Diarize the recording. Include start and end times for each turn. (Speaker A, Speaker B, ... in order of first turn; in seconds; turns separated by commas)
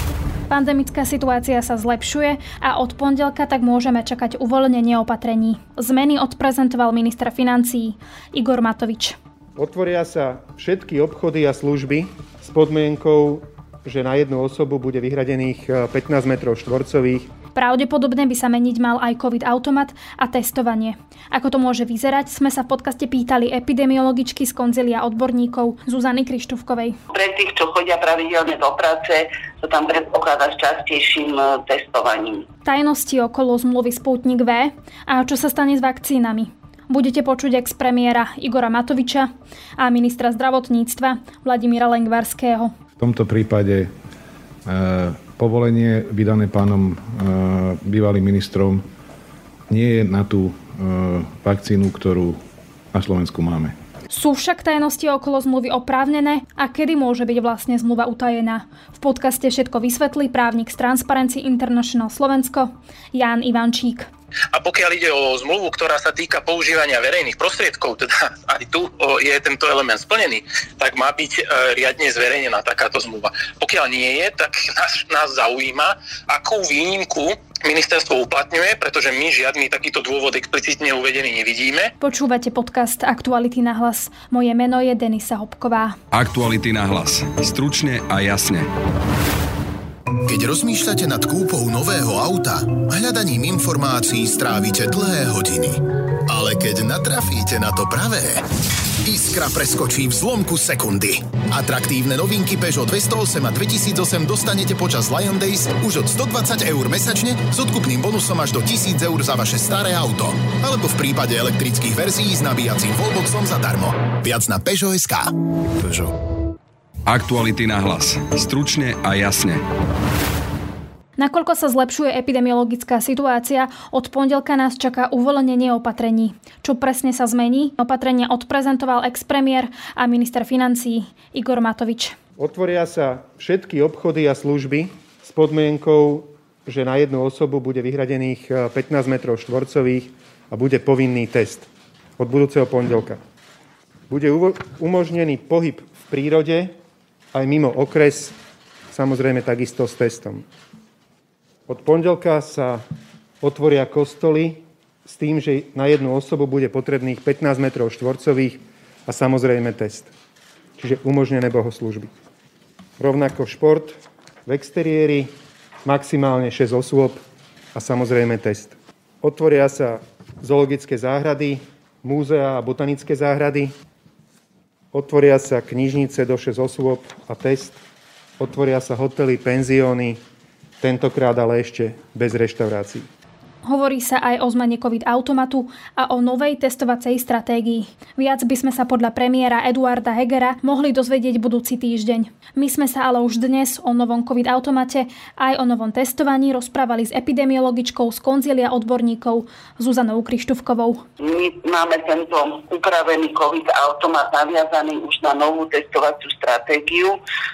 Speaker A: 0.5-9.2, Speaker B: 9.6-17.3, Speaker A: 17.6-27.0, Speaker C: 27.1-32.5, Speaker A: 32.6-42.7, Speaker D: 43.0-43.9, Speaker D: 44.7-48.8, Speaker D: 49.7-52.4, Speaker D: 52.9-53.8, Speaker A: 54.1-64.1, Speaker E: 64.5-81.9, Speaker A: 82.0-86.0, Speaker F: 86.1-88.7, Speaker G: 90.3-98.4, Speaker G: 99.0-116.1, Speaker F: 117.1-119.6, Speaker A: 121.2-132.2, Speaker B: 132.4-143.2, Speaker B: 144.1-146.7, Speaker B: 147.3-148.4, Speaker B: 148.9-150.5, Speaker B: 151.7-152.8, Speaker B: 153.4-160.1, Speaker B: 160.8-162.1, Speaker B: 163.0-165.3, Speaker B: 165.8-167.2, Speaker B: 167.7-173.7, Speaker B: 174.9-177.8, Speaker B: 178.4-180.2, Speaker B: 180.8-183.1, Speaker A: 183.6-201.0, Speaker C: 201.2-207.2